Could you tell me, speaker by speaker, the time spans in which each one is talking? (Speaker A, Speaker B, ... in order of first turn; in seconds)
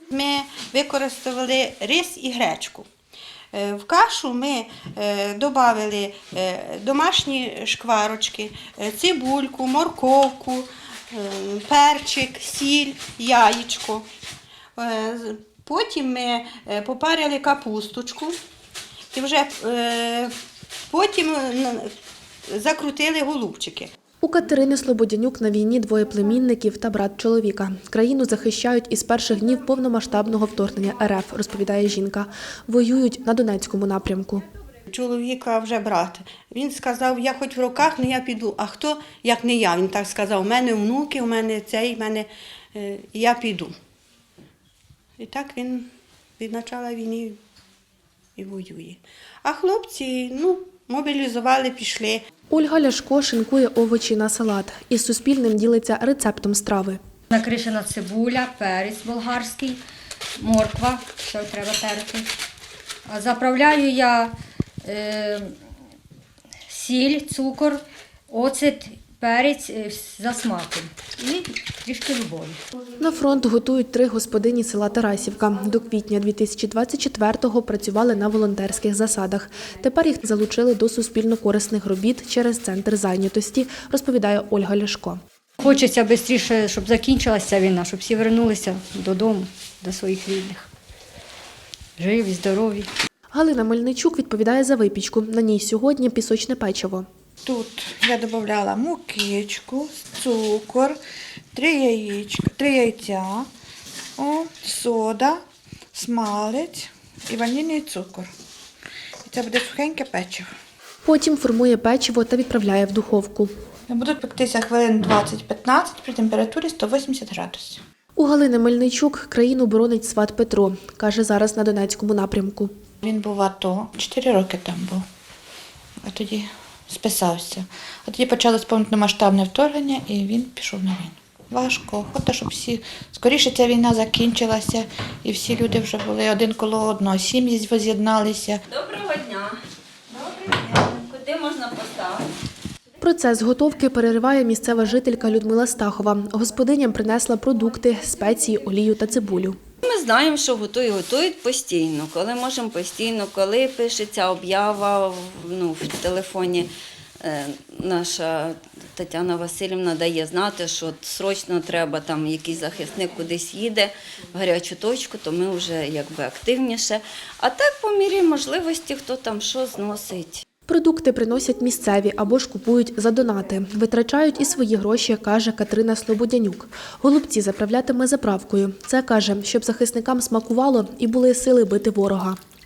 Speaker A: 0.1-2.9, 3.5-14.1, 14.8-18.3, 19.1-20.3, 20.9-21.9, 22.5-23.9, 34.9-43.7, 45.2-45.9, 46.4-47.4, 48.4-52.2
Speaker B: 24.2-34.4, 52.5-57.0, 73.0-85.2, 93.3-97.1, 111.0-113.5, 118.2-122.7, 143.0-149.6, 170.7-182.4
Speaker C: 57.3-59.8, 60.4-62.3, 63.1-65.5, 66.7-72.6, 85.6-90.7, 92.0-92.9
Speaker D: 97.4-101.0, 101.5-103.5, 104.2-105.4, 105.9-108.3, 109.2-110.5, 113.9-117.8, 123.0-125.0, 126.0-138.6
Speaker E: 138.7-142.3, 149.8-156.7, 157.2-170.4